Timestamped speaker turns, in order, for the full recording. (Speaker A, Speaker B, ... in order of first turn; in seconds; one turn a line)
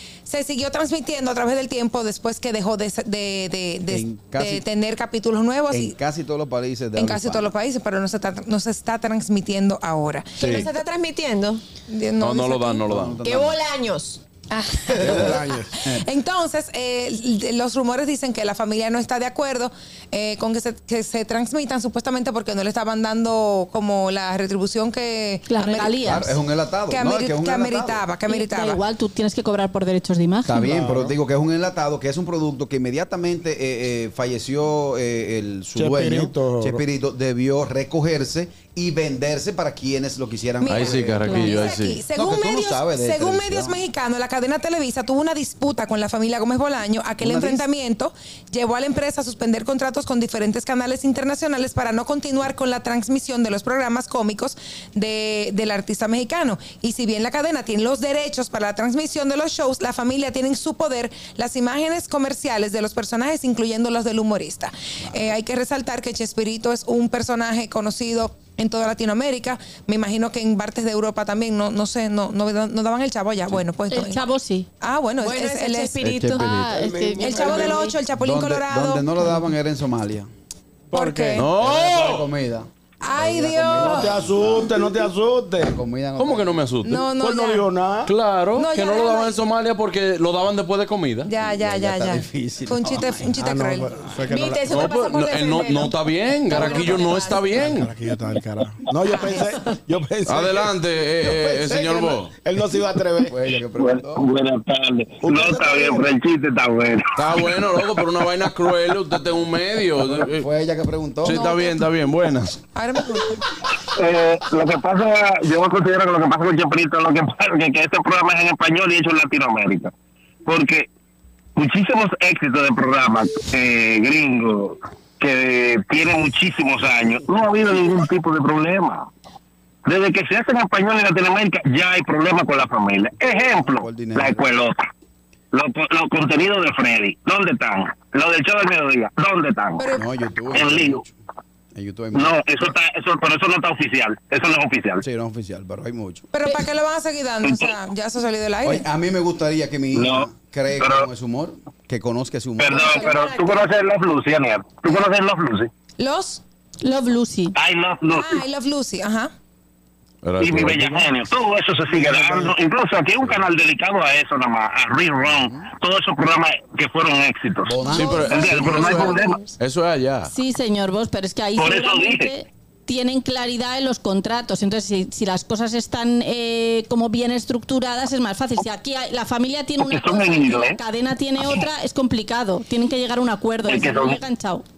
Speaker A: 0.2-5.9
Speaker B: 3.9-4.7
Speaker B: 5.7-7.5
Speaker A: 7.0-10.7
Speaker C: 10.4-11.6
Speaker D: 10.4-10.7
Speaker A: 11.9-12.8
Speaker D: 12.2-13.2
Speaker B: 12.8-13.6
Speaker C: 13.2-14.2
Speaker A: 14.5-25.9
Speaker E: 15.0-15.8
Speaker B: 15.1-15.3
Speaker F: 25.5-26.3
Speaker B: 26.0-28.0
Speaker A: 26.9-28.8
Speaker F: 28.3-30.6
Speaker B: 30.4-43.8
Speaker E: 30.6-31.1
Speaker E: 35.7-36.8
Speaker A: 40.6-74.2
Speaker D: 40.6-42.0
Speaker B: 47.2-47.6
Speaker F: 73.9-74.7
Speaker A: 74.8-76.0
Speaker C: 75.2-77.9
Speaker D: 76.0-76.8
Speaker E: 76.8-77.9
Speaker F: 76.8-77.4
Speaker A: 77.2-79.1
Speaker B: 78.2-80.3
Speaker E: 80.9-81.5
Speaker A: 80.9-81.5
Speaker D: 81.3-82.2
Speaker B: 81.6-84.7
Speaker A: 83.0-84.1
Speaker E: 83.8-85.8
Speaker B: 85.6-86.6
Speaker D: 86.2-87.1
Speaker A: 86.8-87.7
Speaker E: 87.1-88.1
Speaker D: 88.0-91.3
Speaker A: 88.5-89.4
Speaker A: 91.2-93.9
Speaker B: 92.8-93.4
Speaker E: 93.4-94.8
Speaker F: 94.3-94.6
Speaker D: 94.6-97.9
Speaker C: 94.8-95.8
Speaker A: 96.5-97.7
Speaker E: 96.5-100.7
Speaker A: 99.1-99.3
Speaker D: 100.2-102.3
Speaker B: 101.2-101.8
Speaker E: 101.6-103.4
Speaker B: 103.3-104.3
Speaker G: 103.8-108.0
Speaker E: 105.2-106.1
Speaker D: 107.2-110.5
Speaker B: 110.0-111.5
Speaker D: 111.2-112.6
Speaker A: 111.3-111.9
Speaker A: 112.7-113.4
Speaker G: 113.8-119.9
Speaker G: 120.5-120.9
Speaker G: 121.5-129.1
Speaker G: 129.8-134.8
Speaker B: 133.6-134.4
Speaker G: 135.5-139.9
Speaker A: 139.8-140.0
Speaker B: 139.9-141.1
Speaker G: 140.5-141.0
Speaker B: 141.7-142.4
Speaker G: 142.1-145.0
Speaker B: 145.0-146.2
Speaker A: 146.3-148.8
Speaker G: 147.4-147.7
Speaker B: 148.6-153.1
Speaker G: 149.9-151.1
Speaker G: 152.6-155.7
Speaker A: 152.7-153.7
Speaker A: 156.0-156.4
Speaker F: 156.8-157.6
Speaker G: 157.6-158.4
Speaker A: 158.1-159.3
Speaker D: 160.2-161.1
Speaker G: 160.4-169.4
Speaker B: 161.9-162.5
Speaker B: 165.2-165.7
Speaker B: 167.6-168.4
Speaker D: 167.9-170.3
Speaker A: 167.9-169.5
Speaker F: 170.3-184.6
Speaker G: 171.6-172.3
Speaker G: 179.8-180.8
Speaker G: 183.6-184.2